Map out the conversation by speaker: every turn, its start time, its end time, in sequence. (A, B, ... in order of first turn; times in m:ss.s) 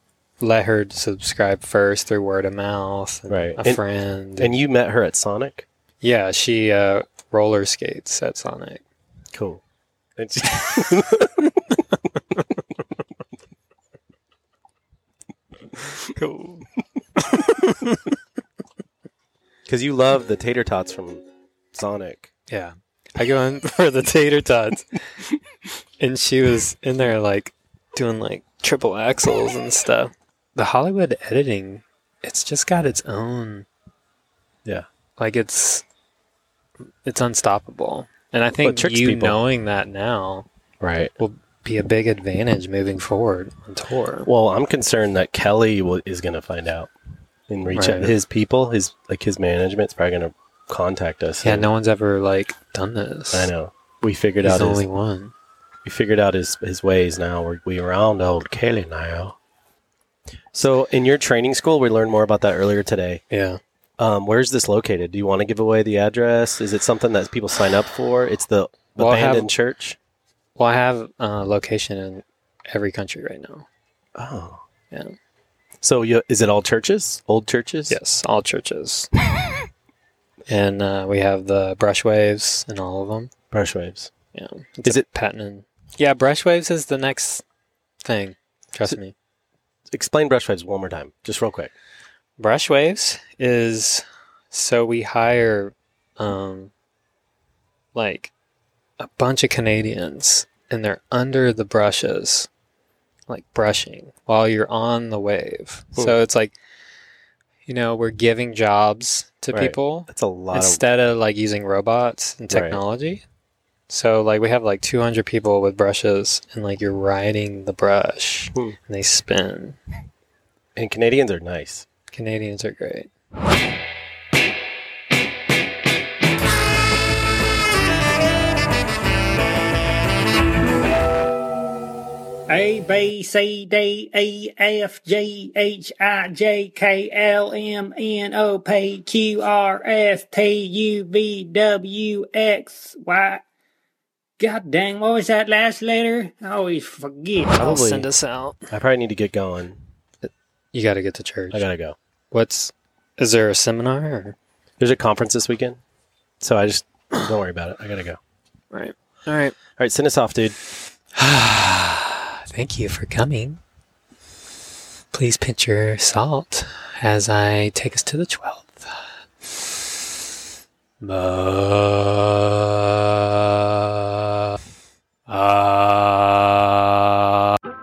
0:00.4-0:04.6 A
0:03.3-0:03.8 B
0:04.4-0:05.6 B
0:06.0-0:08.8 A
0:09.3-0:09.6 B
0:10.2-0:11.5 B
0:16.0-0:18.0 A
0:19.7-0:22.3 B
0:22.5-0:25.0 A
0:26.0-0:33.6 A
0:35.2-0:35.8 A
0:37.0-0:40.4 A
0:38.6-0:39.4 B
0:40.8-0:41.1 B
0:41.2-0:44.3 A
0:44.2-0:46.9 B
0:47.5-0:51.7 B
0:47.7-0:48.1 A
0:51.4-0:53.5 A
0:53.3-0:54.8 B
0:54.4-0:55.3 A
0:55.8-0:59.4 B
1:00.5-1:03.2 B
1:03.3-1:03.6 A
1:04.0-1:10.0 B
1:09.0-1:09.5 A
1:10.6-1:13.6 A
1:14.1-1:14.6 B
1:15.8-1:18.0 B
1:17.9-1:19.1 A
1:20.5-1:23.3 A
1:23.5-1:24.1 B
1:24.3-1:27.4 A
1:28.0-1:29.1 A
1:29.9-1:31.7 B
1:32.4-1:36.7 A
1:37.9-1:38.3 A
1:39.0-1:42.5 A
1:43.3-1:46.5 A
1:47.6-1:53.2 A
1:49.5-1:50.8 B
1:52.5-1:52.8 B
1:53.9-1:59.8 A
2:00.8-2:01.8 B
2:02.1-2:03.1 A
2:12.5-2:23.4 C
2:24.4-2:27.6 C
2:27.6-2:28.1 B
2:27.6-2:28.7 A
2:28.7-2:29.8 B
2:30.2-2:31.7 A
2:31.5-2:32.0 B
2:32.3-2:34.4 A
2:34.8-2:35.8 B
2:36.4-2:38.2 B
2:38.7-2:39.5 A
2:39.8-2:40.6 B
2:41.2-2:43.6 A
2:45.1-2:48.9 A
2:51.0-2:53.4 A
2:55.3-2:57.2 A